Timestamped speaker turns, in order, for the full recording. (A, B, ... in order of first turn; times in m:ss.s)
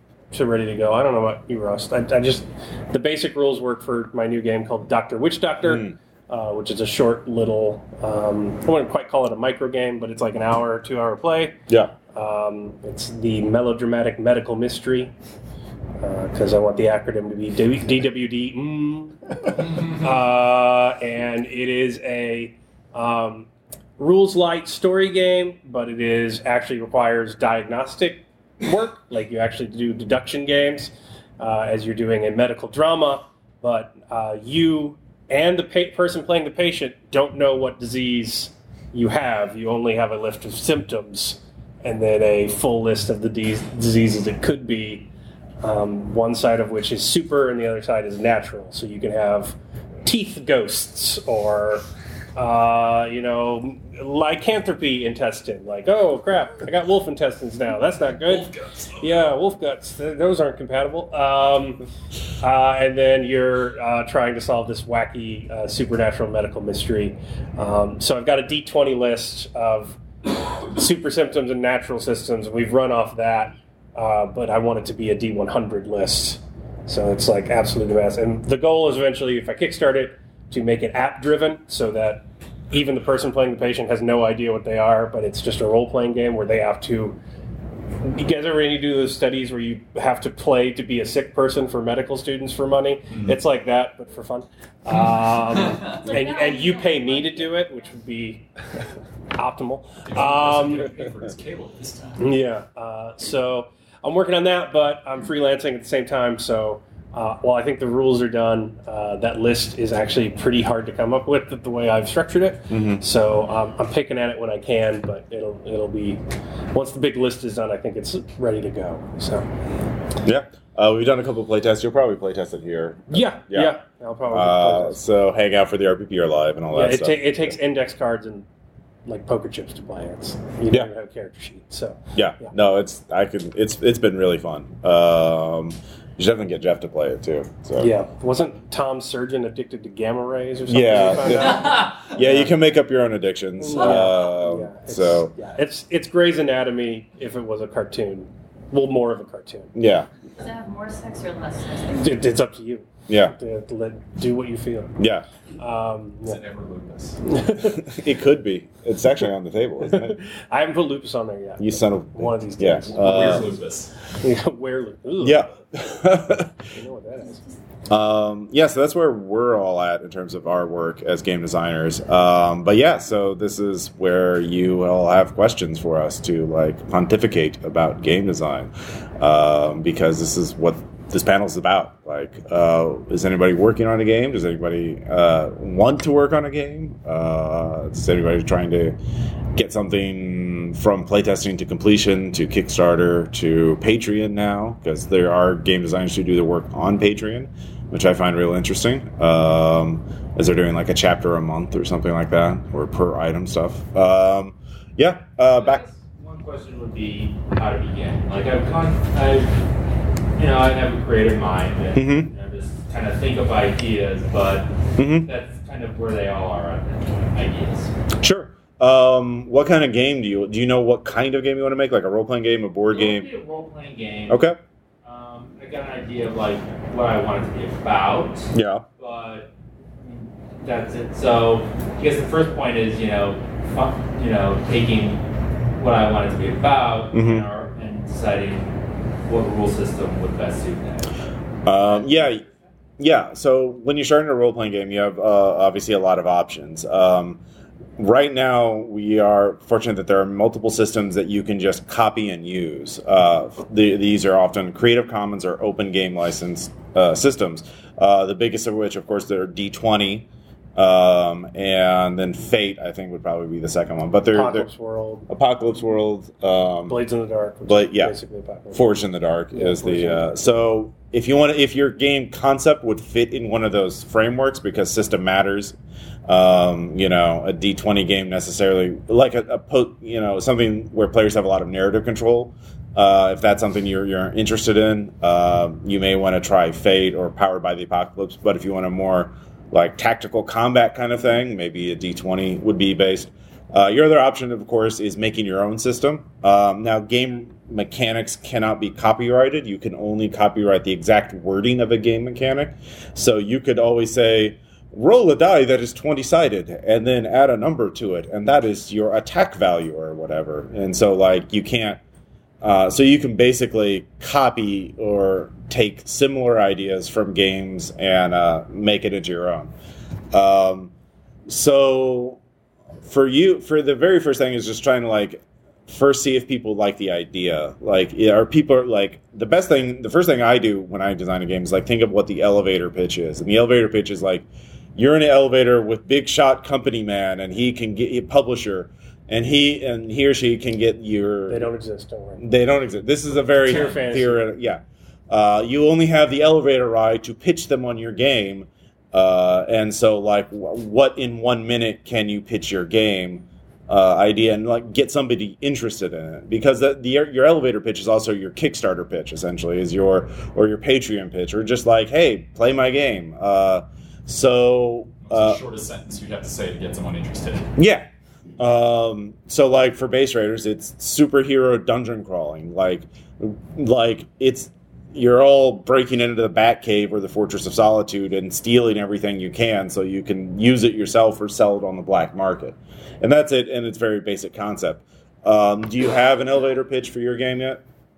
0:00.3-0:11.6 A
0:05.6-0:05.9 B
0:11.7-0:11.9 B
0:12.1-0:15.1 A
0:16.0-0:45.1 A
0:45.6-1:01.8 A
0:58.4-0:59.2 C
1:02.4-1:10.0 A
1:10.7-1:27.2 A
1:28.0-1:38.5 A
1:33.1-1:33.4 C
1:35.8-1:37.9 D
1:39.4-1:40.9 A
1:40.0-1:42.3 C
1:42.2-1:56.2 A
1:52.7-1:53.0 B
1:56.7-1:59.5 A
2:00.2-2:03.8 B
2:03.1-2:05.0 A
2:04.3-2:07.5 B
2:06.7-2:08.4 A
2:09.0-2:12.5 A
2:12.1-2:17.9 B
2:17.8-2:22.5 A
2:20.7-2:25.3 B
2:23.6-2:29.7 A
2:23.8-2:24.1 D
2:29.7-2:30.1 B
2:30.4-2:32.3 D
2:32.0-2:35.0 A
2:33.1-2:33.4 B
2:35.0-2:35.2 B
2:35.6-2:36.4 A
2:36.2-2:37.2 C
2:37.2-2:37.8 A
2:37.8-2:40.2 B
2:39.8-2:43.5 A
2:41.6-2:43.5 B
2:42.7-2:44.1 C
2:44.1-2:45.4 A
2:45.2-2:46.6 B
2:46.7-2:47.4 A
2:47.9-3:09.0 B
3:09.5-3:25.8 B
3:25.5-3:29.6 E
3:30.4-3:34.7 E
3:31.9-3:32.3 B
3:35.0-3:35.3 B
3:35.2-3:37.9 E
3:38.2-3:43.3 B
3:42.9-3:44.4 E
3:44.3-3:44.6 B
3:45.0-3:55.2 E
3:48.5-3:48.8 B
3:55.8-3:58.7 E
3:57.1-3:57.5 B
3:59.2-4:01.1 E
4:01.6-4:02.4 B
4:01.8-4:02.4 E
4:03.0-4:07.4 B
4:08.0-4:24.7 B
4:24.3-4:25.3 A
4:25.3-4:27.0 B
4:26.9-4:28.9 A
4:27.6-4:28.1 B
4:28.7-4:35.8 B
4:29.5-4:30.3 A
4:36.3-5:12.0 B
5:12.6-5:19.7 B
5:20.3-5:20.9 B
5:21.5-5:22.4 B
5:23.0-5:41.7 B
5:41.5-5:42.4 A
5:42.4-6:05.6 B
5:43.6-5:44.4 A
6:05.2-6:07.7 C
6:07.8-6:08.0 B
6:08.6-6:27.8 B